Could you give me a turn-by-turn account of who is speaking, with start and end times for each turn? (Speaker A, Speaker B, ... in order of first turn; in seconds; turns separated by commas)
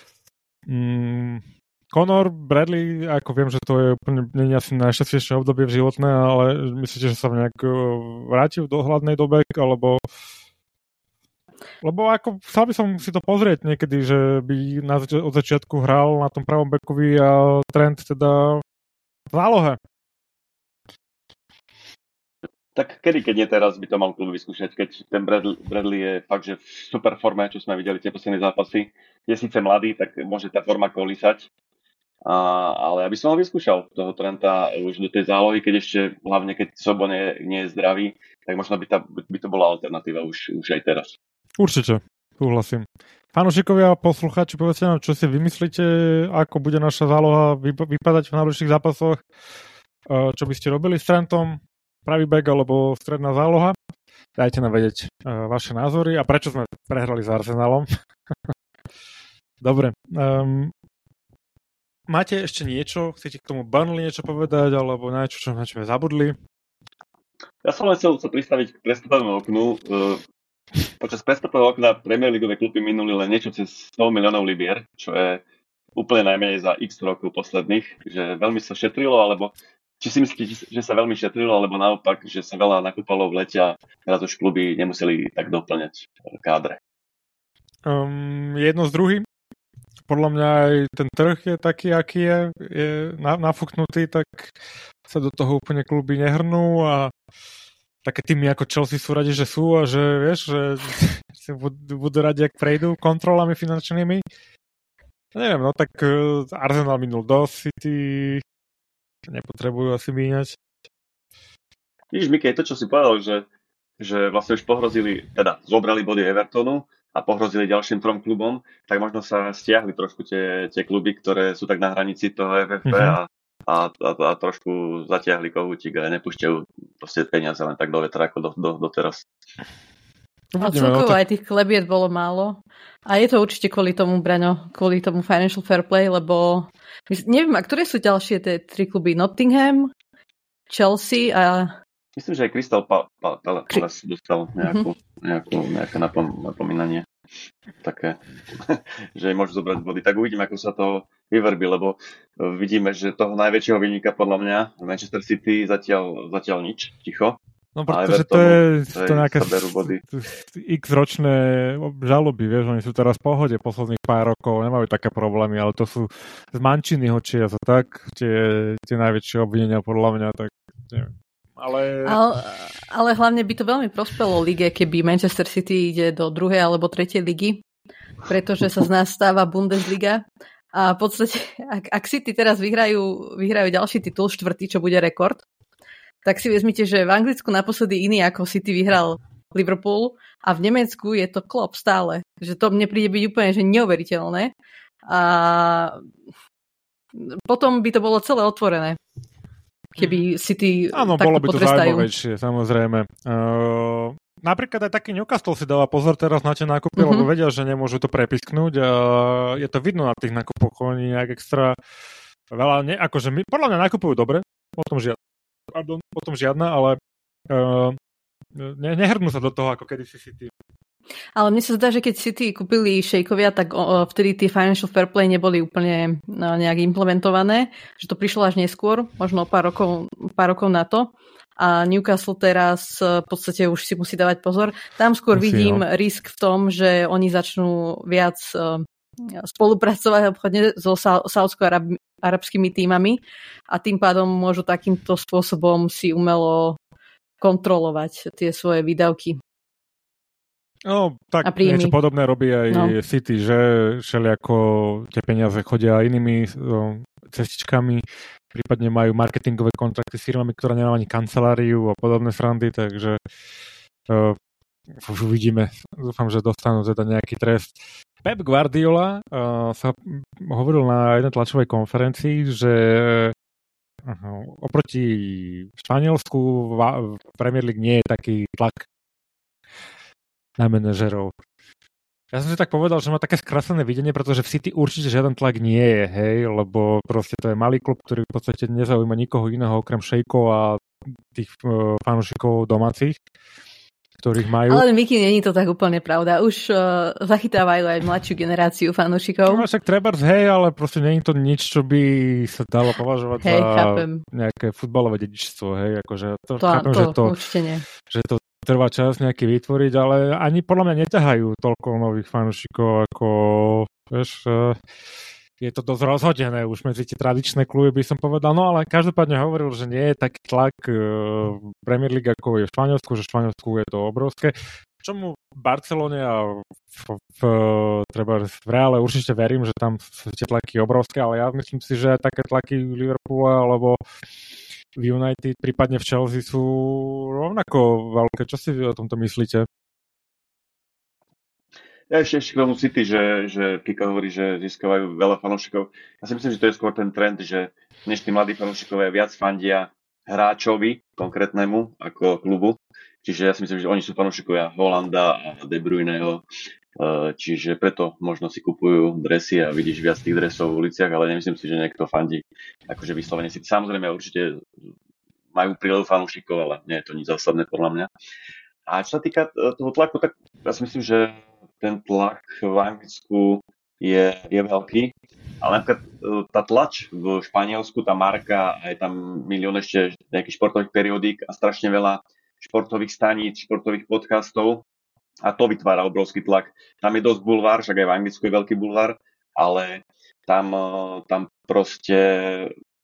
Speaker A: 0.7-10.0, Speaker A: 11.8-18.6, Speaker A: 19.3-19.8, Speaker B: 22.8-31.5, Speaker B: 32.2-41.2, Speaker A: 41.6-49.2, Speaker A: 50.1-53.8, Speaker A: 54.4-57.9, Speaker A: 59.6-60.7, Speaker A: 62.1-66.4, Speaker B: 67.6-70.2, Speaker B: 71.0-75.4, Speaker B: 76.0-86.8, Speaker A: 87.9-89.3, Speaker A: 90.1-94.6, Speaker A: 95.1-97.1, Speaker A: 98.0-104.2, Speaker A: 105.3-108.4, Speaker A: 109.3-110.6, Speaker B: 112.1-113.5, Speaker B: 114.0-129.2, Speaker A: 122.9-123.2, Speaker A: 130.5-131.2, Speaker C: 130.6-139.9, Speaker C: 140.7-141.7, Speaker B: 142.2-147.1, Speaker C: 144.6-144.9, Speaker B: 147.8-157.4, Speaker A: 157.8-172.2, Speaker B: 157.9-160.0, Speaker C: 172.1-177.6, Speaker C: 178.3-185.4, Speaker C: 186.2-194.5, Speaker C: 195.1-196.0, Speaker C: 197.2-199.0, Speaker C: 200.0-202.1, Speaker A: 200.0-200.2, Speaker A: 200.9-211.8, Speaker C: 207.0-207.3, Speaker A: 212.5-215.2, Speaker A: 215.7-217.0, Speaker A: 217.5-218.0, Speaker A: 218.6-220.5, Speaker C: 221.4-246.8, Speaker A: 235.3-235.8, Speaker C: 247.4-249.4, Speaker A: 250.8-263.2, Speaker C: 251.4-252.0, Speaker C: 252.7-252.9, Speaker A: 264.1-264.4, Speaker A: 264.9-273.3, Speaker A: 274.1-278.9, Speaker A: 280.6-281.4, Speaker A: 282.3-293.2, Speaker A: 294.2-294.9, Speaker C: 294.7-299.6, Speaker A: 299.5-307.3, Speaker C: 303.4-304.2, Speaker C: 306.6-307.9, Speaker A: 308.0-314.8, Speaker A: 315.6-334.0, Speaker A: 335.0-339.7, Speaker B: 342.1-356.4, Speaker B: 357.0-364.7, Speaker B: 365.5-368.1, Speaker B: 368.9-384.8, Speaker B: 385.4-392.7